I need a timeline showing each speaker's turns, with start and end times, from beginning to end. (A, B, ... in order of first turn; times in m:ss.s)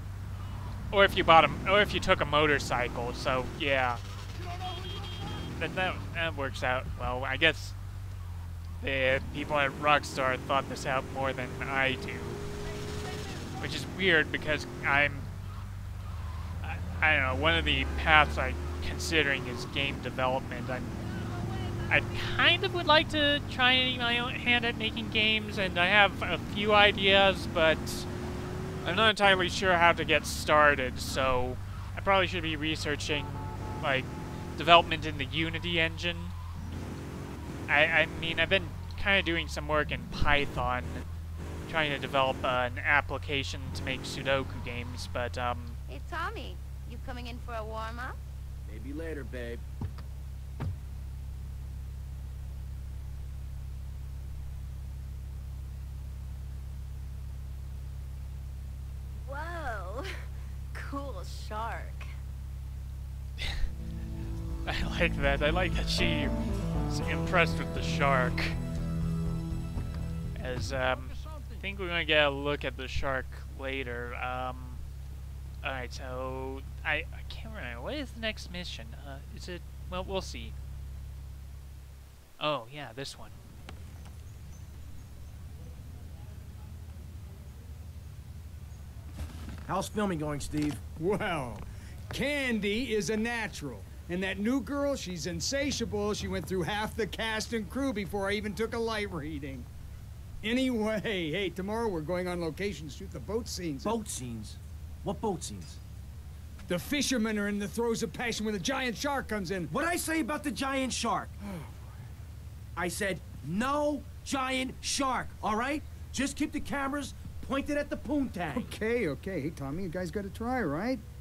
0:00.9-0:04.0 A
0:05.6-0:07.8 A
0:08.8-0:12.4 A
0:13.6-0:15.3 A
0:16.6-0:21.0 A
0:21.9-0:28.1 A
0:28.8-0:36.3 A
0:37.7-0:41.0 A
0:41.6-0:45.8 A
0:45.9-0:48.2 B
0:48.6-0:49.6 C
0:59.2-1:00.1 D
1:00.7-1:02.1 D
1:04.6-1:08.6 A
1:10.4-1:14.8 A
1:15.6-1:20.6 A
1:22.4-1:23.4 A
1:29.7-1:30.8 C
1:31.0-1:39.7 E
1:40.4-1:44.0 E
1:43.8-1:45.8 C
1:46.7-1:49.7 E
1:49.7-1:51.3 C
1:51.4-1:51.8 E
1:52.8-1:58.8 C
1:58.5-2:01.0 E